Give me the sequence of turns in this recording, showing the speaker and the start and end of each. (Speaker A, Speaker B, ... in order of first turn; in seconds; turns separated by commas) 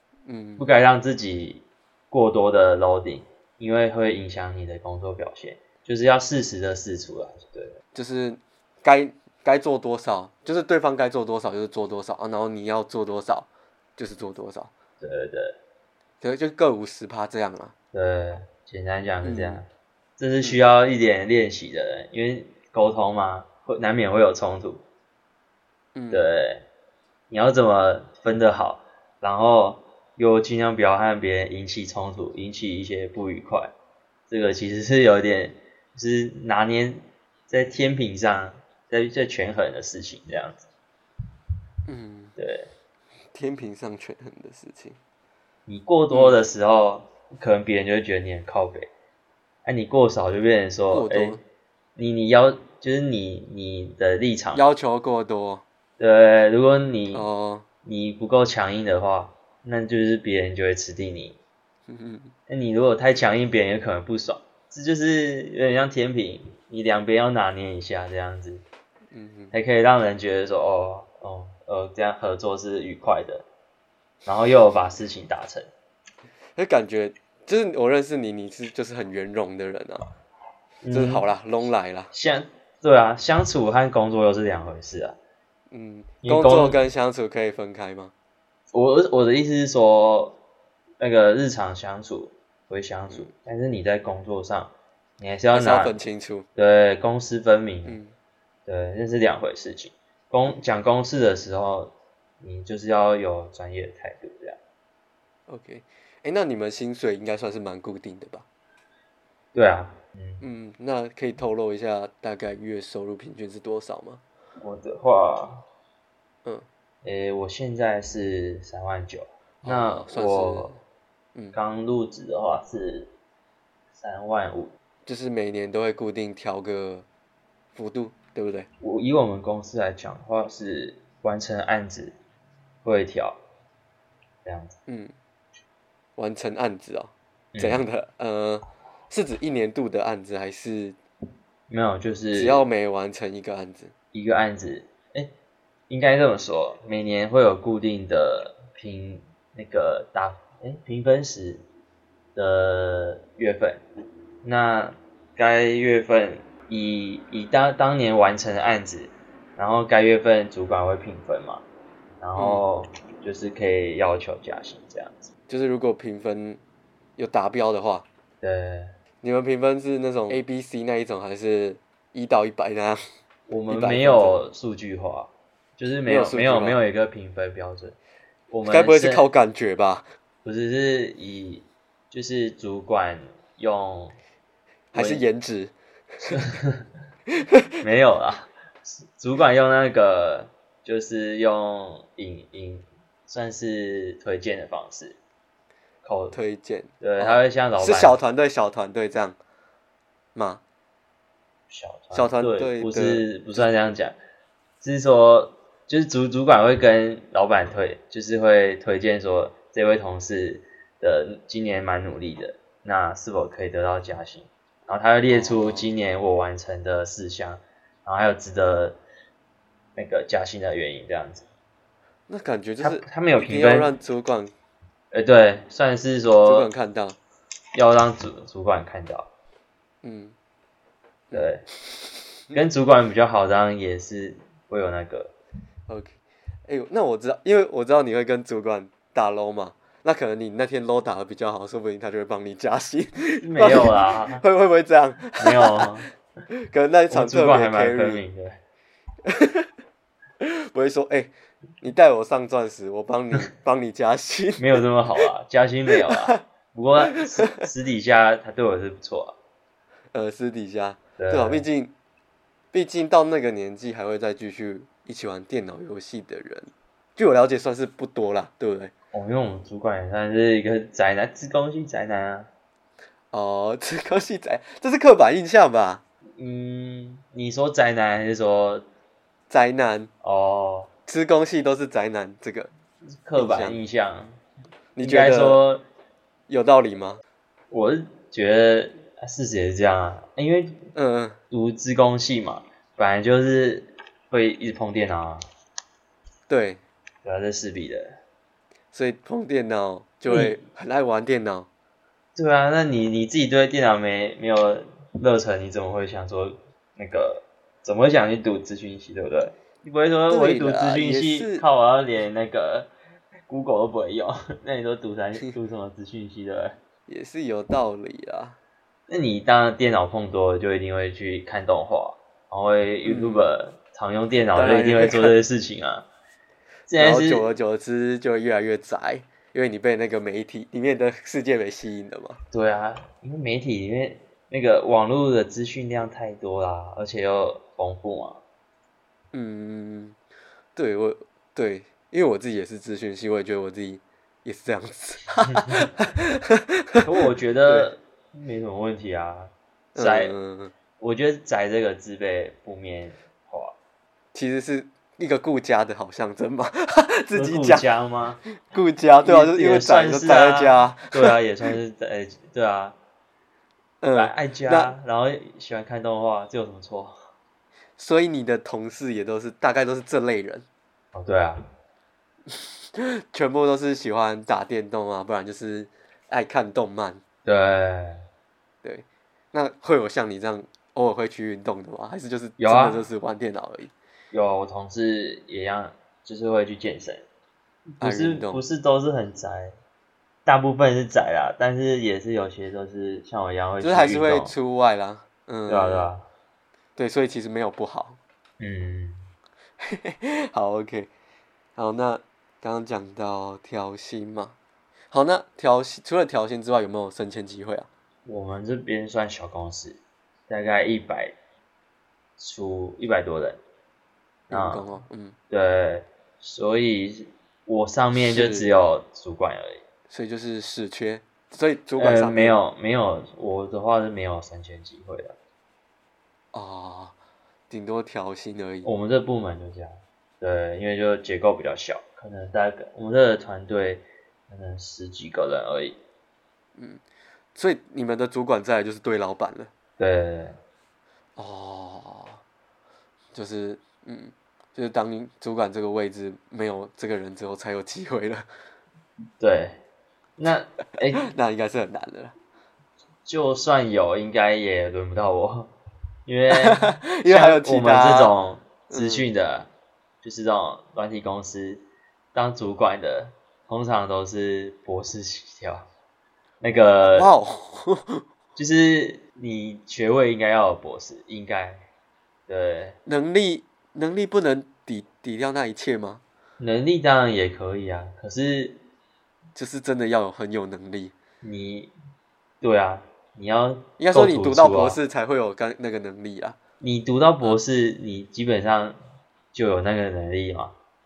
Speaker A: 0.2-0.7, Speaker B: 0.6-7.8, Speaker A: 7.9-14.7, Speaker B: 15.0-15.6, Speaker A: 16.2-17.7, Speaker B: 17.9-19.7, Speaker A: 19.2-19.6, Speaker B: 20.2-24.8, Speaker A: 25.9-26.3, Speaker B: 26.1-26.6, Speaker B: 27.3-33.7, Speaker B: 34.3-40.6, Speaker A: 41.9-42.3, Speaker B: 42.4-42.7, Speaker A: 43.3-45.0, Speaker B: 45.7-48.9, Speaker A: 46.1-46.4, Speaker B: 49.6-51.4, Speaker A: 50.9-51.4, Speaker B: 52.0-54.6, Speaker A: 54.5-55.6, Speaker B: 56.0-57.3, Speaker A: 57.1-57.6, Speaker B: 57.8-61.4, Speaker A: 61.9-62.3, Speaker B: 62.5-68.6, Speaker A: 69.1-69.5, Speaker B: 69.5-73.4, Speaker B: 74.2-75.7, Speaker A: 76.5-80.1, Speaker B: 80.8-81.3, Speaker A: 80.9-82.1, Speaker B: 82.1-85.2, Speaker A: 85.7-88.1, Speaker B: 86.2-86.8, Speaker B: 88.7-90.4, Speaker B: 91.0-95.9, Speaker A: 95.5-96.5, Speaker B: 96.5-98.0, Speaker A: 97.8-98.1, Speaker B: 98.7-104.6, Speaker A: 105.5-108.5, Speaker B: 109.5-110.4, Speaker A: 110.4-114.2, Speaker B: 114.6-115.6, Speaker B: 117.0-120.7, Speaker A: 119.6-120.8, Speaker B: 121.5-123.1, Speaker B: 124.0-124.7, Speaker A: 125.0-127.0, Speaker A: 127.7-128.7, Speaker B: 128.8-132.1, Speaker B: 132.8-133.4, Speaker B: 134.4-134.8, Speaker A: 134.9-135.1, Speaker A: 136.2-141.0, Speaker B: 137.5-137.8, Speaker B: 141.7-142.6, Speaker A: 142.3-143.9, Speaker B: 144.1-145.3, Speaker B: 145.9-151.6, Speaker B: 152.3-153.8, Speaker B: 154.4-161.6, Speaker B: 162.2-165.3, Speaker A: 162.4-162.6, Speaker A: 165.5-166.6, Speaker A: 167.2-168.1, Speaker B: 168.4-168.9, Speaker A: 169.2-173.0, Speaker B: 173.5-178.0, Speaker A: 173.7-174.5, Speaker A: 176.1-176.8, Speaker B: 178.5-179.2, Speaker A: 178.7-180.1, Speaker B: 180.4-184.2, Speaker A: 184.9-186.4, Speaker B: 184.9-185.2, Speaker B: 186.3-186.8, Speaker A: 187.3-187.7, Speaker B: 187.8-188.5, Speaker B: 189.0-195.2, Speaker B: 196.0-196.3, Speaker A: 196.3-199.4, Speaker B: 197.0-198.2, Speaker A: 200.3-200.6, Speaker B: 201.7-204.2, Speaker A: 202.1-203.7, Speaker B: 204.8-219.0, Speaker A: 215.3-215.9, Speaker B: 219.9-221.4, Speaker A: 222.3-224.5, Speaker B: 222.8-223.9, Speaker B: 225.1-226.7, Speaker A: 226.4-227.2, Speaker B: 227.7-229.3, Speaker A: 230.0-230.3, Speaker B: 231.3-231.6, Speaker B: 232.5-235.3, Speaker A: 235.9-245.9, Speaker B: 243.4-244.4, Speaker B: 245.4-246.1, Speaker A: 246.5-248.2, Speaker B: 247.1-248.6, Speaker A: 249.2-249.7, Speaker A: 250.4-254.8, Speaker B: 254.6-259.3, Speaker A: 255.9-256.4, Speaker A: 260.1-261.9, Speaker B: 261.2-261.6, Speaker A: 262.7-268.9, Speaker B: 269.1-272.5, Speaker A: 273.3-276.0, Speaker B: 276.4-278.8, Speaker A: 279.5-280.1, Speaker B: 280.2-280.9, Speaker A: 281.1-282.7, Speaker B: 283.1-284.4, Speaker A: 283.4-283.8, Speaker A: 284.9-285.6, Speaker B: 285.0-285.8, Speaker A: 286.5-287.2, Speaker B: 287.7-290.9, Speaker A: 290.9-291.4, Speaker B: 291.5-295.4, Speaker A: 296.5-296.8, Speaker B: 297.2-298.2, Speaker A: 298.9-301.7, Speaker B: 300.3-300.6, Speaker B: 302.3-312.9, Speaker A: 310.3-311.6, Speaker B: 313.5-316.8, Speaker A: 317.1-318.6, Speaker B: 319.1-326.1, Speaker A: 323.0-323.4, Speaker A: 324.5-325.4, Speaker B: 326.9-327.5, Speaker A: 327.0-332.4, Speaker B: 332.5-338.4, Speaker A: 339.3-340.2, Speaker A: 340.8-347.1, Speaker B: 347.0-350.3, Speaker A: 349.9-350.7, Speaker B: 351.0-353.7, Speaker A: 354.3-357.9, Speaker B: 357.3-358.4, Speaker A: 358.6-361.4, Speaker B: 359.2-362.9, Speaker A: 364.0-364.9, Speaker B: 364.1-367.2, Speaker A: 368.0-370.6, Speaker B: 371.1-371.6, Speaker A: 372.5-377.2, Speaker B: 377.4-378.2, Speaker A: 378.8-383.9, Speaker B: 382.6-383.1, Speaker B: 384.3-387.2, Speaker B: 387.9-389.7, Speaker A: 388.0-388.6, Speaker B: 390.4-394.5, Speaker A: 393.8-396.1, Speaker B: 395.7-396.2, Speaker A: 397.0-398.2, Speaker B: 398.6-399.3, Speaker A: 399.8-401.1, Speaker A: 401.8-404.5, Speaker A: 405.1-407.9, Speaker B: 408.2-411.3, Speaker B: 412.4-413.6, Speaker A: 414.5-415.3, Speaker B: 414.5-414.8, Speaker B: 415.5-419.8, Speaker A: 418.1-418.7, Speaker A: 420.1-422.6, Speaker B: 422.0-425.3, Speaker A: 426.5-427.1, Speaker A: 427.7-428.9, Speaker B: 428.8-436.0, Speaker A: 436.8-437.0, Speaker A: 437.5-439.7, Speaker B: 440.0-440.6, Speaker A: 441.4-442.4, Speaker A: 443.3-448.4, Speaker B: 449.4-449.8, Speaker B: 450.4-451.3, Speaker A: 451.2-452.3, Speaker B: 453.2-455.7, Speaker B: 456.2-459.7, Speaker A: 456.5-458.3, Speaker A: 458.9-459.2, Speaker B: 460.2-465.9, Speaker B: 466.6-467.3, Speaker A: 467.1-468.2, Speaker B: 468.6-471.9, Speaker B: 472.5-473.0, Speaker A: 473.1-476.2, Speaker B: 476.6-478.8, Speaker A: 479.6-481.1, Speaker B: 481.4-481.9, Speaker B: 482.6-485.0, Speaker A: 484.0-486.6, Speaker B: 486.8-489.0, Speaker B: 489.5-490.7